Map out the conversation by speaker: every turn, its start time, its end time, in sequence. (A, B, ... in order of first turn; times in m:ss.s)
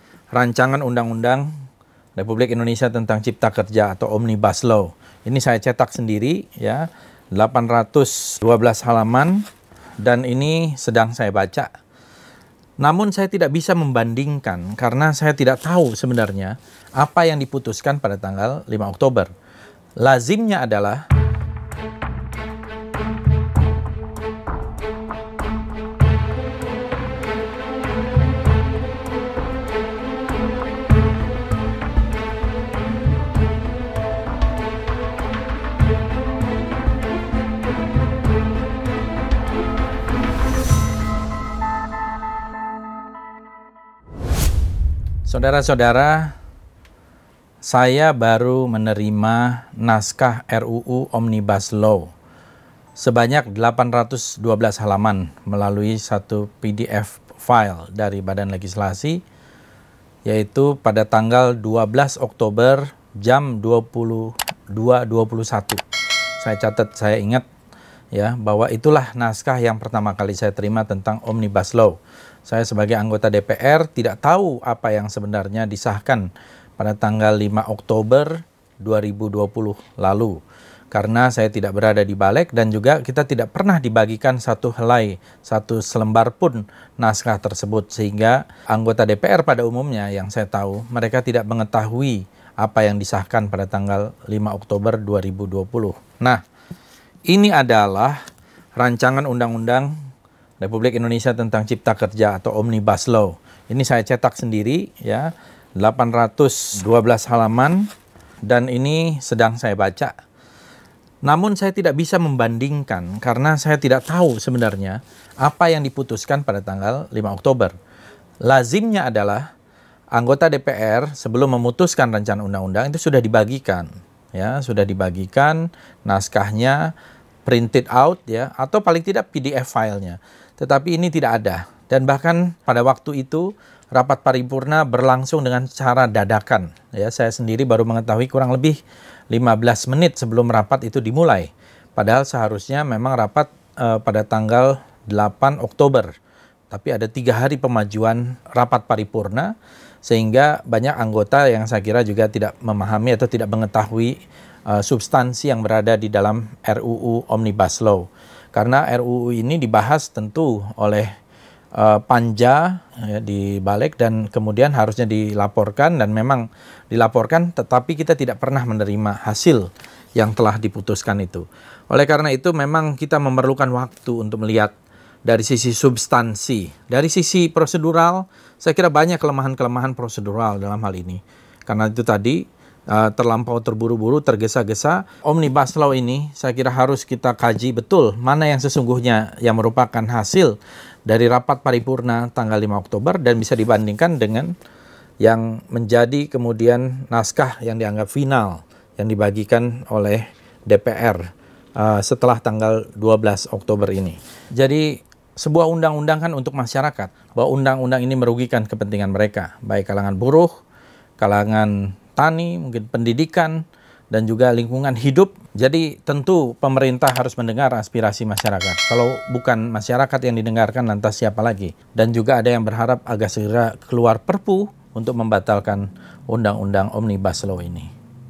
0:00.3-0:01.5 A
0:02.2-0:09.4 A
0:10.0-0:11.7 A
0:12.8-0:19.3 A
0:20.0-0:21.0 A
0:45.3-0:46.3 A
0:47.6-0:52.1 A
0:53.0-0:59.2 A
1:00.2-1:05.8 A
1:06.4-1:07.4 A
1:08.1-1:20.4 A
1:20.9-1:36.4 A
1:37.3-1:38.2 A
1:38.8-1:39.9 A
1:40.6-1:47.9 A
1:48.4-1:50.1 A
1:51.2-1:57.7 A
1:58.4-1:59.4 A
2:00.1-2:06.9 A
2:07.4-2:18.8 A
2:19.3-2:26.1 A
2:26.7-2:29.5 A
2:30.0-2:34.2 A
2:34.7-2:41.1 A
2:41.8-2:54.7 A
2:55.2-3:10.6 A
3:11.1-3:14.5 A
3:15.2-3:21.2 A
3:21.8-3:30.5 A
3:31.2-3:33.6 A
3:34.1-3:47.9 A